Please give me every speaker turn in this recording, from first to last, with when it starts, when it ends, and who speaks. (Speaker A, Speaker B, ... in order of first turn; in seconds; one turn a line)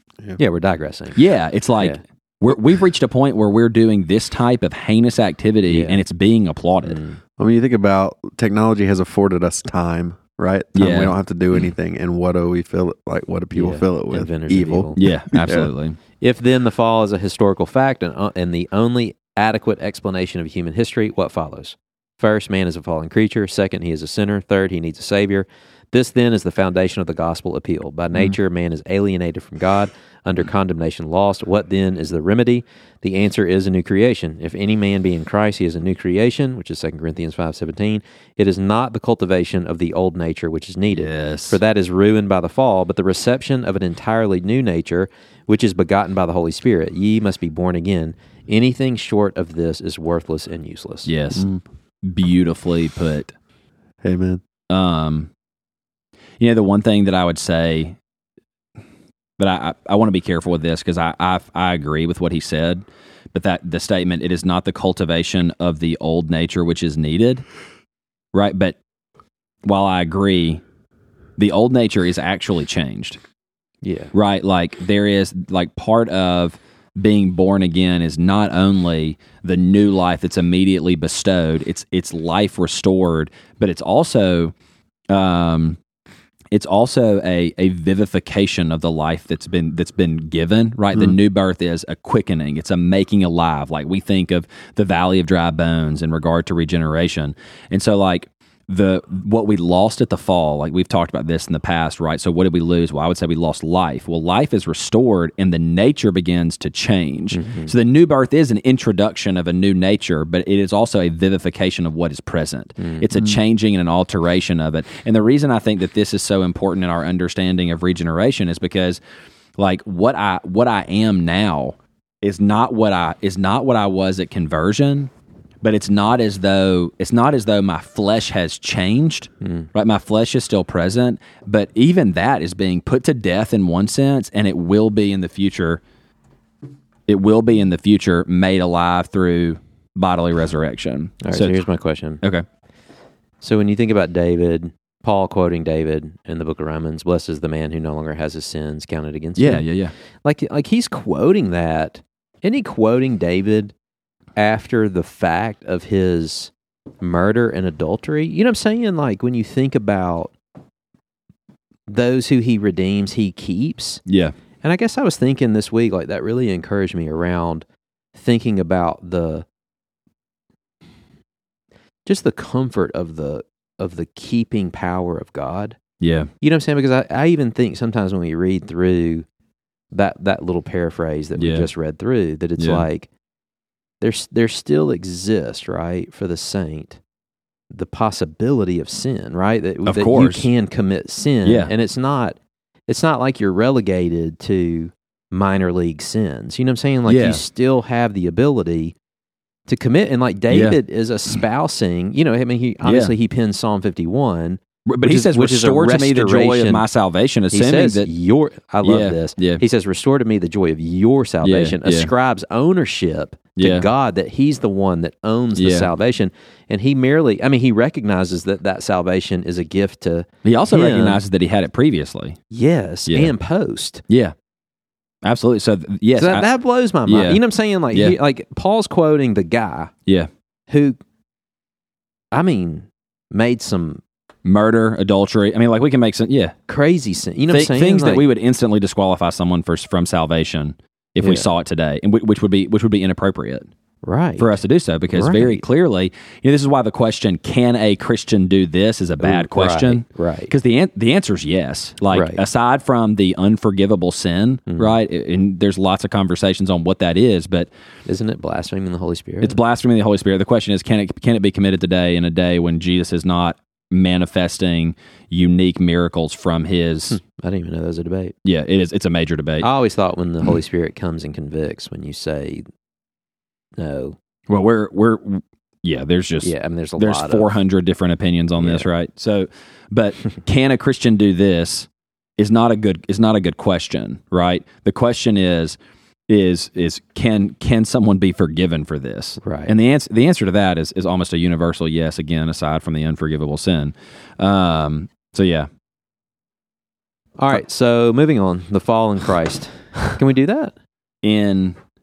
Speaker A: 0.4-1.2
Speaker B: 1.1-7.0
Speaker A: 5.7-6.0
Speaker A: 6.8-7.2
Speaker C: 7.4-15.7
Speaker B: 10.7-11.2
Speaker A: 13.5-15.0
Speaker B: 14.9-16.0
Speaker A: 16.2-51.1
Speaker B: 40.9-41.6
Speaker B: 51.0-51.5
Speaker C: 51.3-51.6
Speaker B: 52.0-53.3
Speaker C: 54.0-54.4
Speaker B: 54.7-55.3
Speaker B: 56.4-58.0
Speaker B: 59.4-62.8
Speaker B: 63.3-67.4
Speaker B: 68.3-68.8
Speaker B: 69.6-70.6
Speaker B: 71.4-73.2
Speaker A: 73.8-74.1
Speaker B: 74.1-84.5
Speaker B: 85.1-85.8
Speaker B: 86.5-119.0
Speaker A: 107.3-107.7
Speaker A: 112.8-113.0
Speaker B: 119.6-125.1
Speaker B: 125.6-135.8
Speaker A: 129.4-129.7
Speaker B: 137.1-141.6
Speaker A: 141.2-142.2
Speaker A: 143.4-149.7
Speaker B: 149.4-149.9
Speaker A: 150.2-153.7
Speaker A: 154.4-160.3
Speaker A: 161.9-164.0
Speaker B: 164.1-164.3
Speaker A: 164.6-169.4
Speaker A: 172.1-175.8
Speaker B: 176.0-176.3
Speaker A: 176.4-179.2
Speaker A: 179.9-183.1
Speaker B: 181.4-181.7
Speaker B: 182.6-182.8
Speaker A: 184.0-187.0
Speaker A: 187.7-198.9
Speaker B: 189.8-190.5
Speaker B: 191.4-191.7
Speaker B: 197.1-197.4
Speaker A: 199.7-206.8
Speaker B: 200.5-200.8
Speaker B: 202.8-203.1
Speaker B: 204.9-208.1
Speaker A: 207.5-221.2
Speaker B: 208.8-209.6
Speaker B: 211.4-212.1
Speaker B: 213.6-213.9
Speaker B: 215.6-215.9
Speaker B: 220.4-222.4
Speaker A: 222.5-224.0
Speaker B: 223.1-223.3
Speaker B: 224.1-224.3
Speaker B: 225.2-226.5
Speaker A: 226.2-229.9
Speaker B: 227.1-227.4
Speaker B: 227.9-228.2
Speaker A: 230.7-231.0
Speaker A: 232.3-234.0
Speaker B: 234.4-236.6
Speaker A: 236.7-238.2
Speaker B: 237.5-243.7
Speaker A: 241.2-241.5
Speaker A: 244.0-244.6
Speaker B: 244.4-257.7
Speaker A: 245.1-245.6
Speaker A: 249.2-250.5
Speaker A: 252.1-252.4
Speaker A: 254.7-255.0
Speaker A: 258.1-259.6
Speaker B: 259.4-267.2
Speaker A: 267.1-268.3
Speaker B: 268.4-269.7
Speaker A: 269.6-272.6
Speaker A: 273.8-274.2
Speaker B: 274.5-285.8
Speaker A: 276.4-277.5
Speaker A: 278.6-278.9
Speaker B: 286.3-295.7
Speaker A: 289.4-289.7
Speaker A: 297.4-300.7
Speaker B: 301.2-301.8